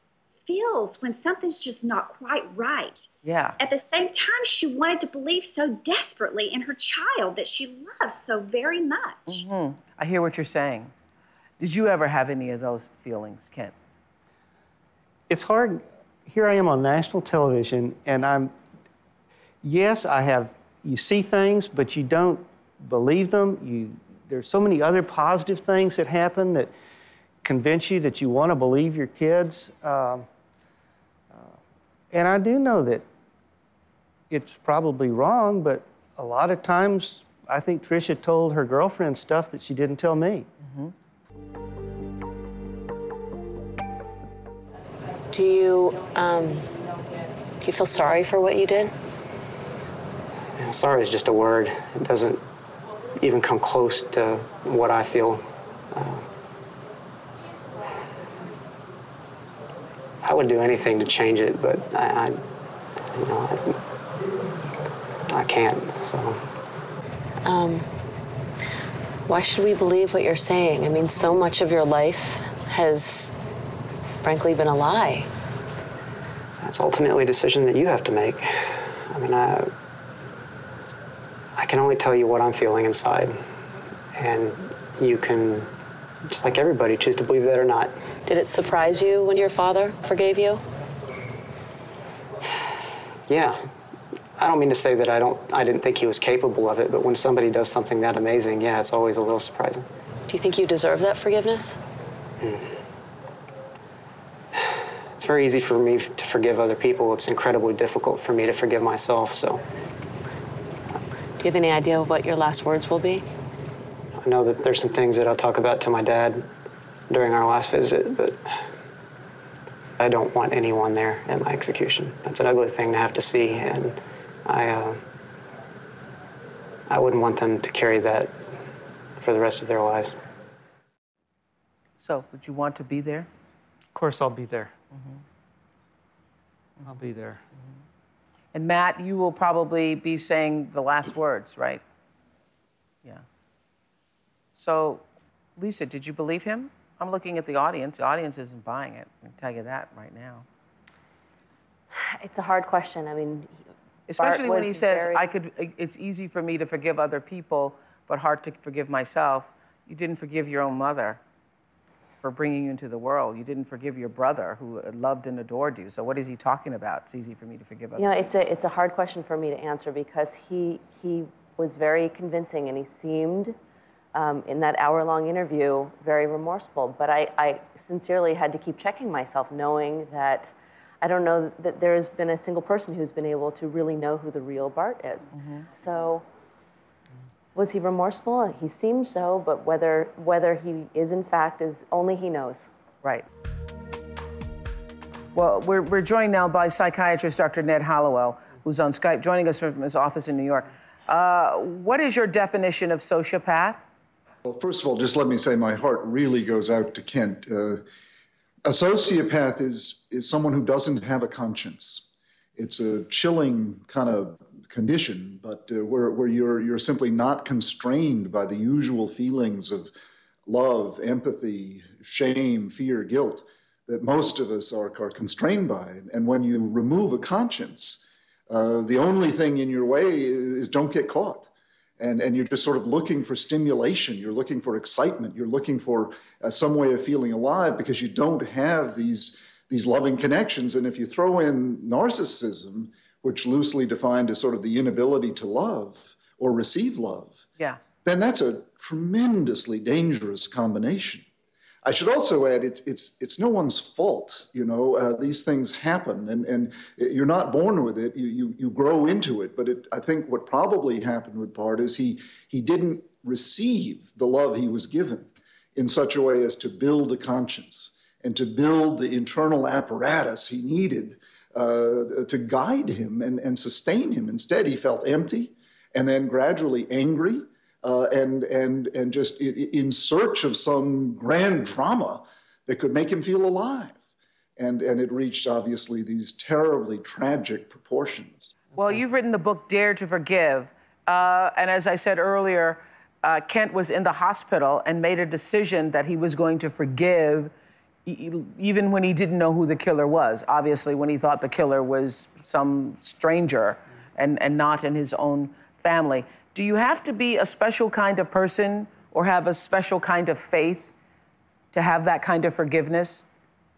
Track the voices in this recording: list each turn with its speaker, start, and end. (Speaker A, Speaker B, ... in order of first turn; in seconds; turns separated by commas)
Speaker A: 0.5-9.4, Speaker B: 3.2-3.6, Speaker B: 9.3-10.9, Speaker B: 11.6-13.7, Speaker C: 15.3-18.5, Speaker C: 19.6-26.7, Speaker C: 27.4-30.3, Speaker C: 31.3-31.6, Speaker C: 32.1-33.1, Speaker C: 34.3-40.5, Speaker B: 40.6-40.9, Speaker D: 45.3-46.7, Speaker D: 47.6-48.9, Speaker E: 50.6-52.4, Speaker E: 53.2-56.3, Speaker E: 60.2-62.4, Speaker E: 63.1-63.8, Speaker E: 65.3-66.4, Speaker D: 67.4-67.9, Speaker D: 69.3-73.3, Speaker D: 74.2-75.3, Speaker E: 76.6-79.7, Speaker E: 81.6-83.4, Speaker E: 84.2-85.7, Speaker E: 86.3-88.0, Speaker D: 88.3-90.6, Speaker E: 93.3-93.6, Speaker E: 94.4-99.9, Speaker D: 100.3-101.8, Speaker E: 102.4-102.7, Speaker E: 104.5-109.6, Speaker D: 111.4-113.3, Speaker E: 114.2-116.5, Speaker E: 117.1-118.4, Speaker E: 120.0-125.0, Speaker E: 126.9-128.3, Speaker E: 129.2-130.1, Speaker B: 132.0-133.3, Speaker C: 133.9-134.7, Speaker B: 134.9-135.2, Speaker C: 136.8-137.4, Speaker B: 138.5-141.8, Speaker B: 144.5-145.0, Speaker B: 145.6-150.4, Speaker D: 151.9-153.5, Speaker B: 154.1-161.2, Speaker D: 154.2-155.3, Speaker B: 162.2-168.1, Speaker D: 168.0-173.6, Speaker D: 174.1-186.2, Speaker B: 185.4-185.7, Speaker D: 187.6-192.7, Speaker B: 195.3-203.8, Speaker F: 204.4-207.8, Speaker F: 208.7-219.9, Speaker F: 220.5-231.5, Speaker F: 232.0-247.4, Speaker F: 248.1-251.3, Speaker F: 251.8-284.0, Speaker F: 284.6-288.6, Speaker B: 288.8-297.5, Speaker B: 298.1-310.9, Speaker B: 311.7-313.2